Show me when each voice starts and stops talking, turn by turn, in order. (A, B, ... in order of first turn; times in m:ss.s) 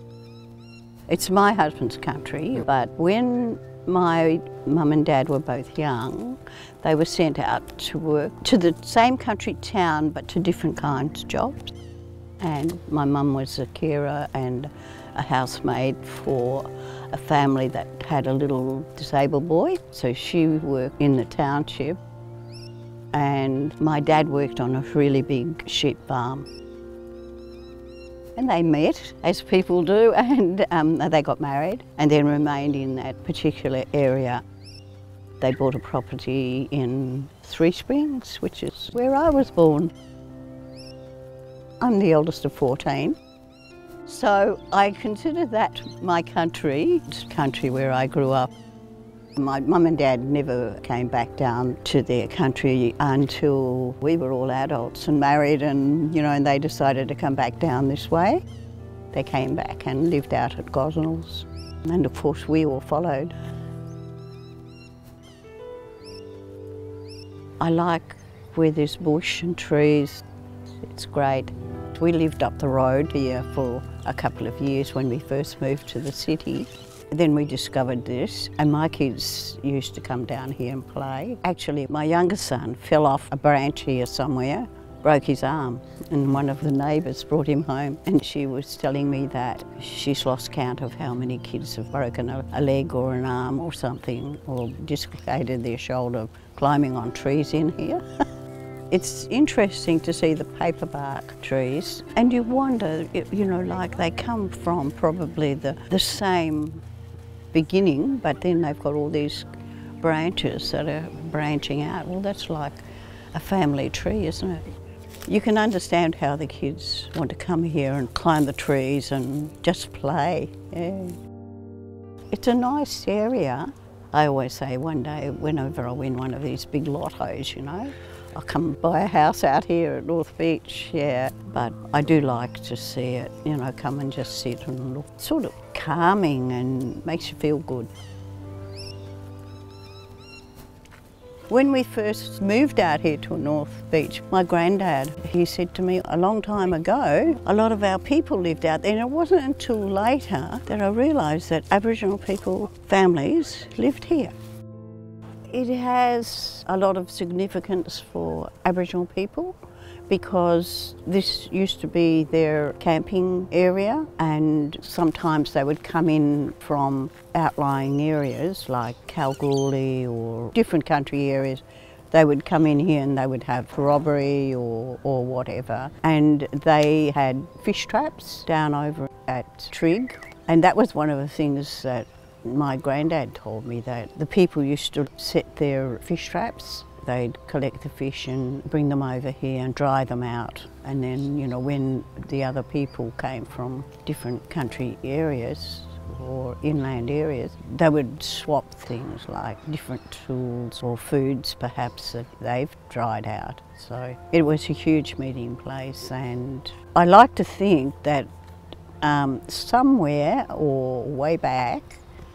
0:01.1-0:11.7 A
0:12.4-0:22.0 A
0:23.1-0:26.5 A
0:28.4-0:34.4 A
0:35.4-0:39.9 A
0:41.8-0:43.2 A
0:44.0-0:48.5 A
0:49.4-0:58.4 A
0:59.1-1:03.3 A
1:07.6-1:10.2 A
1:10.8-1:38.0 A
1:38.9-1:46.8 A
1:47.5-1:49.5 A
1:50.0-1:54.7 A
1:55.3-2:01.2 A
2:02.3-2:17.9 A
2:21.5-2:34.3 A
2:35.5-2:39.6 A
2:40.1-3:28.3 A
3:29.0-3:32.0 A